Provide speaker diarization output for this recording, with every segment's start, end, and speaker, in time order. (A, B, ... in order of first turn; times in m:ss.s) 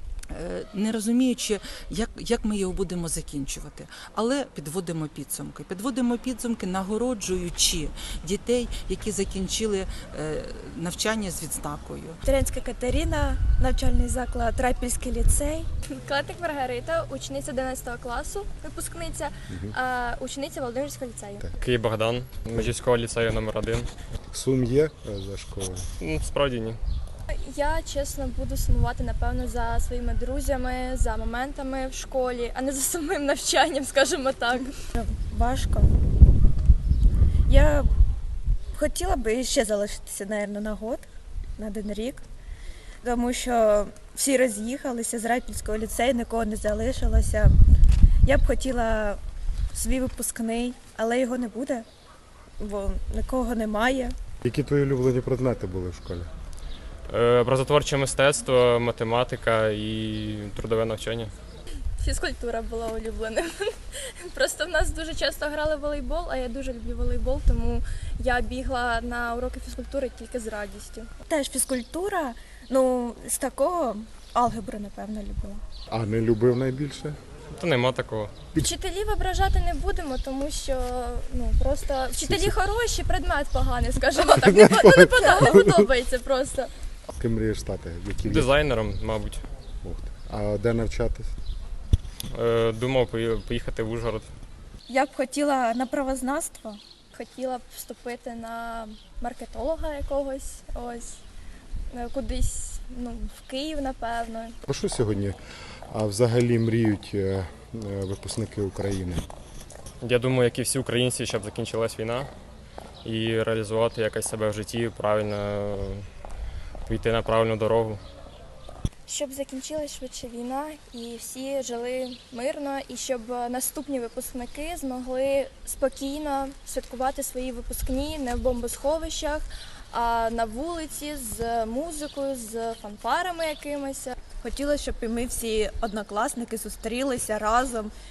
0:00.3-0:12.2 A
0:12.2-0:15.7 B
0:15.8-0:21.4 C
0:21.6-0:23.9 D
0:24.3-0:25.9 E
0:26.0-0:26.8 D
0:27.3-0:34.8 C
0:35.0-0:36.0 B
0:37.5-0:37.9 B
0:38.7-0:42.2 B
0:43.0-0:47.6 B
0:48.2-0:49.2 B
0:49.7-0:51.8 B
0:52.6-0:54.2 B
0:54.4-0:56.3 E
0:57.1-1:01.3 D
1:02.0-1:11.1 C
1:11.3-1:15.6 B
1:15.9-1:17.2 E
1:17.5-1:18.3 D
1:18.5-1:26.7 C
1:22.2-1:22.5 E
1:27.2-1:28.5 E
1:28.2-1:29.4 D
1:29.8-1:31.3 E
1:32.3-1:34.3 D
1:34.9-1:36.8 B
1:37.1-1:41.2 C
1:41.9-1:44.6 C
1:44.7-1:45.4 E
1:45.9-1:49.3 E
1:50.0-1:52.3 D
1:53.0-1:56.0 D
1:56.8-1:58.0 D
1:59.0-2:14.2 C
2:14.4-2:17.9 B